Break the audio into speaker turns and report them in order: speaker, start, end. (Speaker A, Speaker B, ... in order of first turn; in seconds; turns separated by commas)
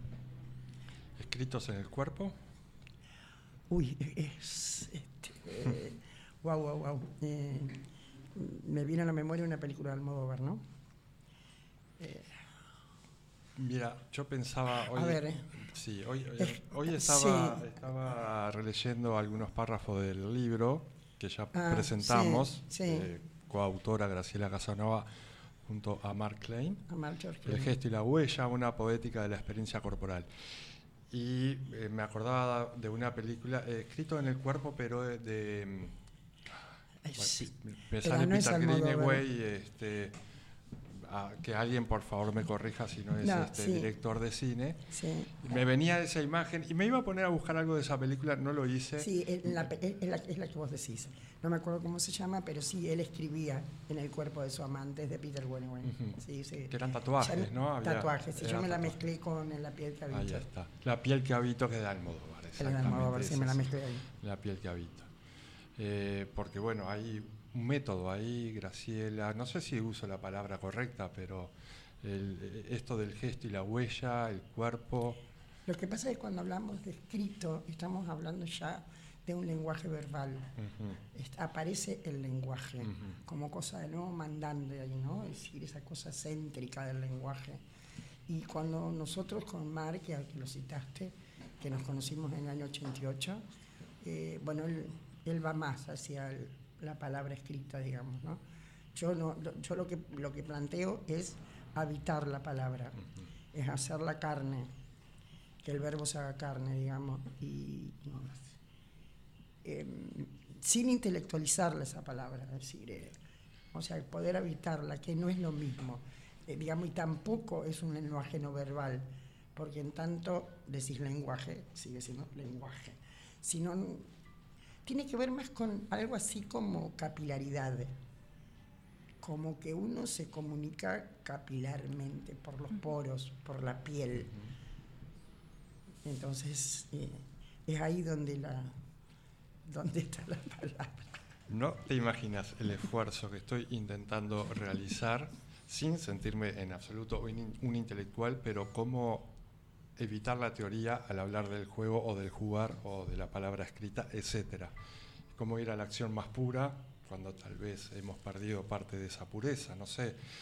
Speaker A: 1.2-2.4, Speaker B: 3.7-7.8, Speaker B: 8.3-10.6, Speaker B: 12.0-12.3, Speaker A: 13.6-25.1, Speaker B: 14.9-15.5, Speaker B: 16.4-17.7, Speaker B: 21.5-23.1, Speaker A: 25.6-26.8, Speaker B: 26.9-27.8, Speaker A: 27.4-30.3, Speaker A: 31.1-35.9, Speaker B: 37.0-37.5, Speaker A: 37.1-40.1, Speaker B: 38.0-39.2, Speaker A: 41.0-44.8, Speaker B: 43.2-43.9, Speaker B: 44.9-45.6, Speaker A: 45.4-49.1, Speaker B: 49.0-60.5, Speaker A: 55.9-56.2, Speaker A: 56.7-59.0, Speaker A: 60.1-65.1, Speaker B: 62.6-64.0, Speaker A: 65.8-75.2, Speaker B: 75.7-80.5, Speaker A: 80.6-81.0, Speaker B: 81.1-87.6, Speaker A: 82.8-83.1, Speaker B: 88.3-93.4, Speaker B: 94.0-98.4, Speaker B: 98.9-103.0, Speaker B: 103.5-104.7, Speaker B: 105.6-108.5, Speaker B: 109.6-113.2, Speaker B: 113.7-124.1, Speaker B: 124.8-127.9, Speaker B: 129.2-134.3, Speaker B: 136.0-138.8, Speaker B: 139.7-141.1, Speaker A: 141.5-149.3, Speaker A: 150.0-154.7, Speaker A: 155.3-160.2